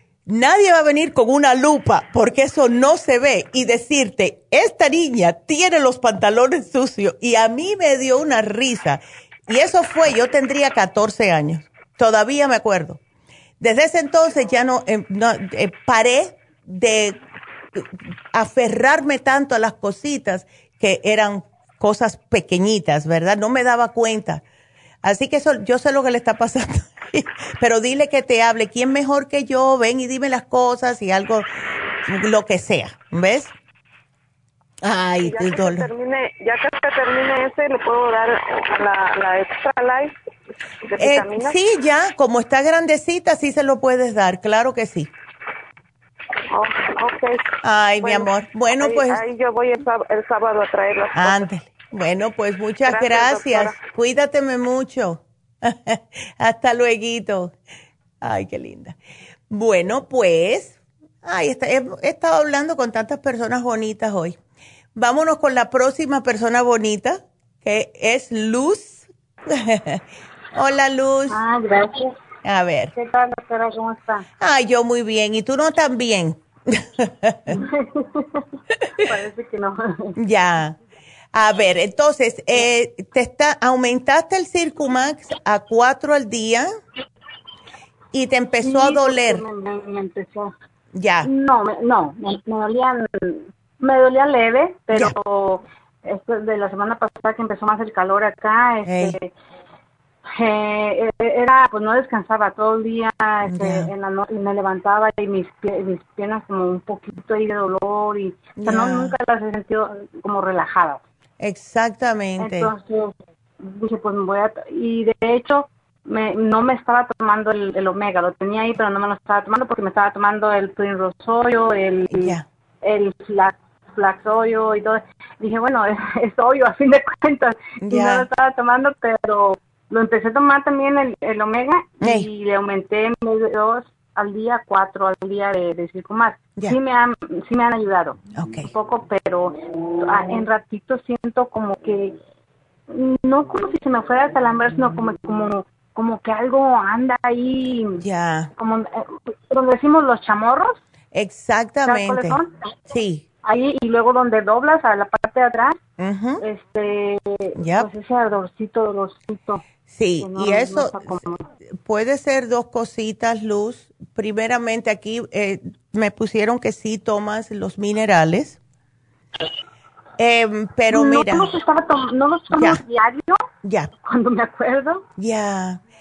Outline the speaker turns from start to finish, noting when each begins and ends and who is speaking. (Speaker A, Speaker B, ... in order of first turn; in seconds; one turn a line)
Speaker A: 0.3-13.0
Speaker A: 13.6-17.2
Speaker A: 17.8-24.4
Speaker A: 25.0-31.5
Speaker A: 32.1-33.5
Speaker A: 34.8-35.9
Speaker B: 35.2-40.1
Speaker B: 40.9-41.6
Speaker A: 41.0-45.1
Speaker B: 46.5-47.5
Speaker A: 47.6-49.2
Speaker B: 48.0-51.5
Speaker A: 51.1-57.5
Speaker B: 52.9-53.8
Speaker A: 58.2-59.0
Speaker A: 59.5-64.4
Speaker A: 65.0-70.0
Speaker A: 70.5-71.4
Speaker C: 71.3-72.2
Speaker A: 72.4-72.9
Speaker C: 73.0-74.3
Speaker A: 74.4-77.5
Speaker C: 77.5-78.4
Speaker C: 79.0-80.2
Speaker A: 80.2-80.8
Speaker A: 81.3-86.7
Speaker A: 88.1-89.4
Speaker C: 88.6-90.5
Speaker A: 90.9-91.3
Speaker C: 91.2-99.3
Speaker A: 98.8-99.2
Speaker C: 100.3-111.0
Speaker A: 103.5-103.9
Speaker A: 108.6-109.2
Speaker A: 111.4-112.7
Speaker C: 112.4-142.2
Speaker A: 122.1-122.4
Speaker A: 127.8-128.3
Speaker A: 132.0-132.3
Speaker A: 138.3-138.7
Speaker C: 142.9-148.0
Speaker A: 148.0-148.5
Speaker C: 148.6-150.8
Speaker A: 151.1-152.4
Speaker C: 151.8-152.5
Speaker A: 152.9-153.2
Speaker C: 153.4-155.8
Speaker A: 156.0-156.4
Speaker C: 156.4-159.7
Speaker A: 157.6-157.9
Speaker A: 159.9-161.1
Speaker C: 160.2-161.4
Speaker A: 161.8-168.6
Speaker A: 170.2-171.5
Speaker C: 170.9-173.4
Speaker A: 172.6-172.8
Speaker A: 173.6-173.9
Speaker C: 174.0-175.0
Speaker A: 175.2-175.8